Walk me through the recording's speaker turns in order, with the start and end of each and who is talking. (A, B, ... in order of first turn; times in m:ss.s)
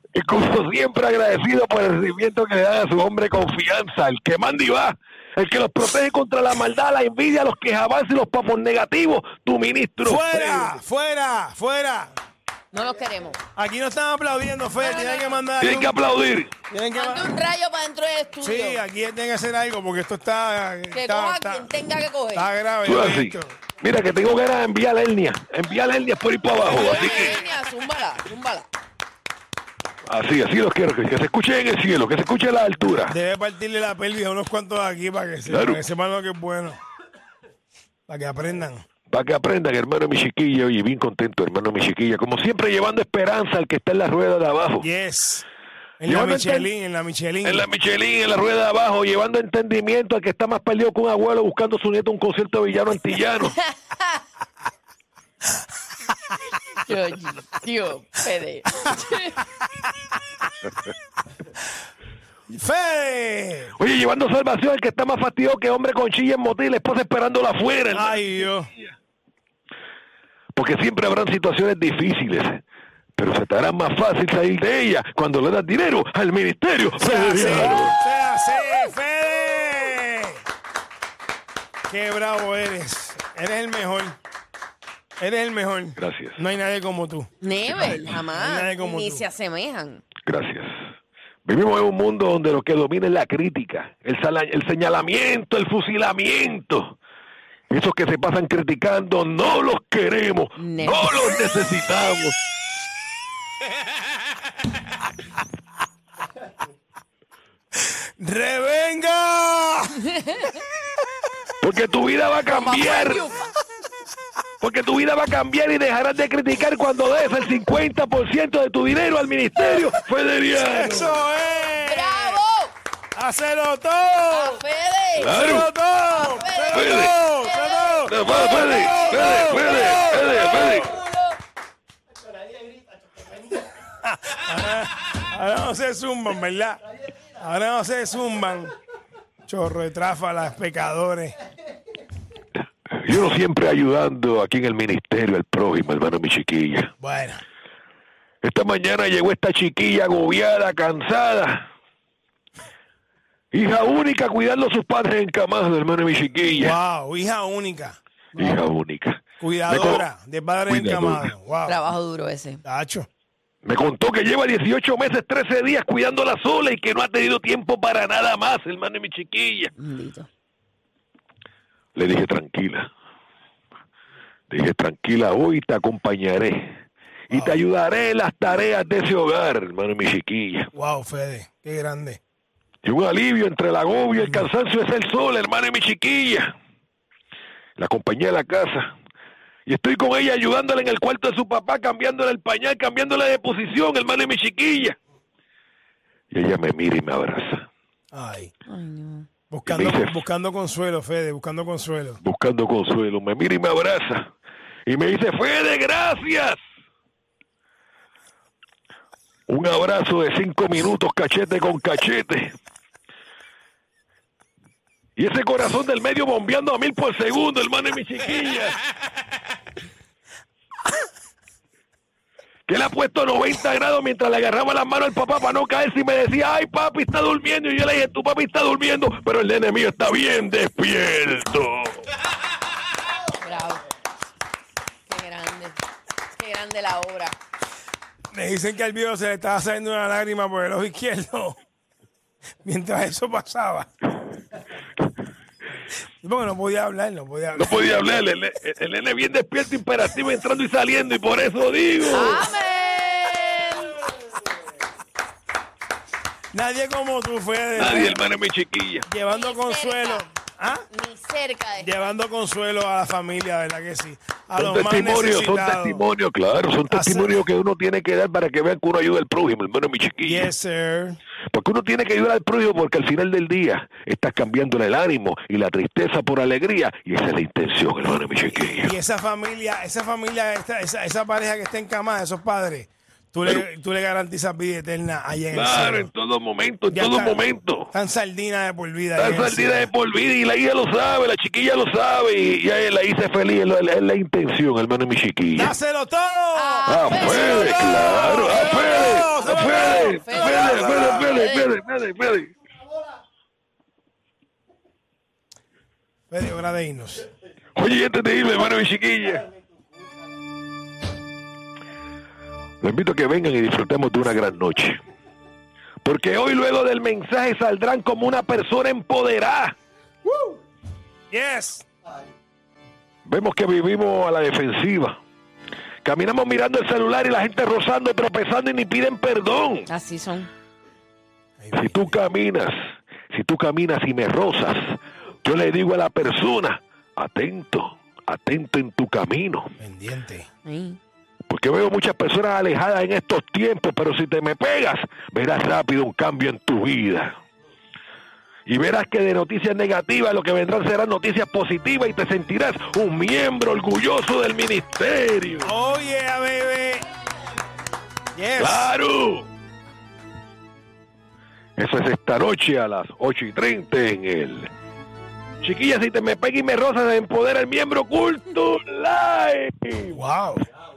0:00.2-0:10.8 A
0:10.0-0:12.1 B
0:12.7-0:13.4 C
0:13.5-0:16.0 B
0:14.8-0:15.5 C
0:15.6-0:16.5 A
0:16.7-0:17.4 B
0:16.9-0:18.8 C
0:18.4-0:21.8 B
0:20.9-0:22.5 C
0:22.3-0:23.6 B
0:22.8-0:27.4 A
0:26.6-0:28.7 C
0:30.1-0:33.2 A
0:33.1-0:36.8 B
0:35.5-0:35.8 A
0:38.1-0:38.8 B
0:39.1-0:44.9 A
0:44.8-0:45.4 B
0:46.0-0:47.7 B
0:46.0-0:46.7 A
0:47.4-0:53.6 A
0:56.8-0:59.4 C
1:02.5-1:03.7 B
1:03.8-1:08.9 A
1:07.9-1:08.7 B
1:10.6-1:12.6 A
1:13.2-1:18.0 A
1:17.0-1:20.4 B
1:17.6-1:17.9 C
1:21.9-1:24.2 B
1:25.2-1:27.3 B
1:26.0-1:26.4 A
1:27.4-1:30.1 C
1:27.8-1:29.3 B
1:30.3-1:30.7 A
1:31.4-1:37.0 A
1:37.7-1:42.4 A
1:40.6-1:41.5 C
1:48.2-1:50.0 B
1:50.0-1:50.5 C
1:51.6-1:53.3 A
1:52.4-1:53.5 C
1:54.6-2:01.2 A
2:00.5-2:02.4 B
2:01.8-2:02.7 C
2:03.2-2:04.6 B
2:04.3-2:05.4 C
2:05.2-2:05.7 A
2:05.2-2:10.9 B
2:05.9-2:11.4 C
2:06.7-2:07.2 A
2:08.1-2:11.0 A
2:14.0-2:16.8 B
2:17.4-2:18.8 B
2:19.5-2:21.4 B
2:23.0-2:26.9 A
2:27.0-2:27.4 B
2:28.4-2:31.7 A
2:33.5-2:36.8 A
2:36.4-2:38.6 B
2:38.4-2:40.1 A
2:39.4-2:41.8 B
2:40.7-2:41.3 A
2:41.6-2:42.6 C
2:42.6-2:43.1 B
2:43.6-2:49.7 A
2:49.8-2:50.3 C
2:52.0-2:52.9 A
2:54.5-3:00.7 A
2:57.3-2:57.6 B
3:00.7-3:02.2 B
3:02.8-3:06.5 A
3:04.2-3:04.5 B
3:07.8-3:08.9 A
3:09.7-3:15.0 A
3:16.3-3:17.7 A
3:18.1-3:18.5 B
3:18.7-3:19.3 C
3:19.5-3:22.2 B
3:19.7-3:20.2 A
3:22.2-3:24.3 A
3:24.9-3:26.6 A
3:29.5-3:32.6 A
3:35.2-3:38.8 A
3:42.7-3:52.0 A
3:53.4-3:53.8 C
3:55.1-3:55.8 C
3:56.4-3:57.4 C
3:58.3-4:01.6 B
4:02.6-4:03.9 B
4:06.2-4:08.2 B
4:07.6-4:12.5 A
4:12.0-4:14.0 C
4:16.5-4:18.2 B
4:17.8-4:19.1 A
4:19.1-4:20.8 B
4:19.2-4:20.3 C
4:20.9-4:22.1 C
4:21.8-4:26.0 B
4:24.6-4:30.5 A
4:26.9-4:27.4 B
4:30.2-4:31.2 B
4:31.5-4:39.0 A
4:38.7-4:46.1 B
4:45.5-4:47.9 A
4:46.9-4:49.9 B
4:49.2-4:55.7 A
4:55.5-4:57.4 B
4:56.5-5:01.7 C
4:56.9-5:02.5 A
4:58.0-5:01.3 B
5:06.3-5:07.3 B
5:07.8-5:09.5 A
5:12.8-5:15.0 A
5:16.0-5:19.8 A
5:20.3-5:20.6 B
5:21.3-5:21.8 B
5:23.3-5:25.2 A
5:26.0-5:29.9 A
5:29.9-5:30.5 C
5:31.6-5:32.1 B
5:31.7-5:32.7 A
5:33.3-5:39.7 A
5:39.8-5:40.5 B
5:40.6-5:41.0 C
5:41.5-5:47.4 A
5:48.7-5:55.7 A
5:55.6-5:57.1 B
5:58.4-5:59.0 B
5:58.6-5:59.5 A
6:01.8-6:04.7 A
6:05.6-6:10.2 A
6:10.1-6:10.7 B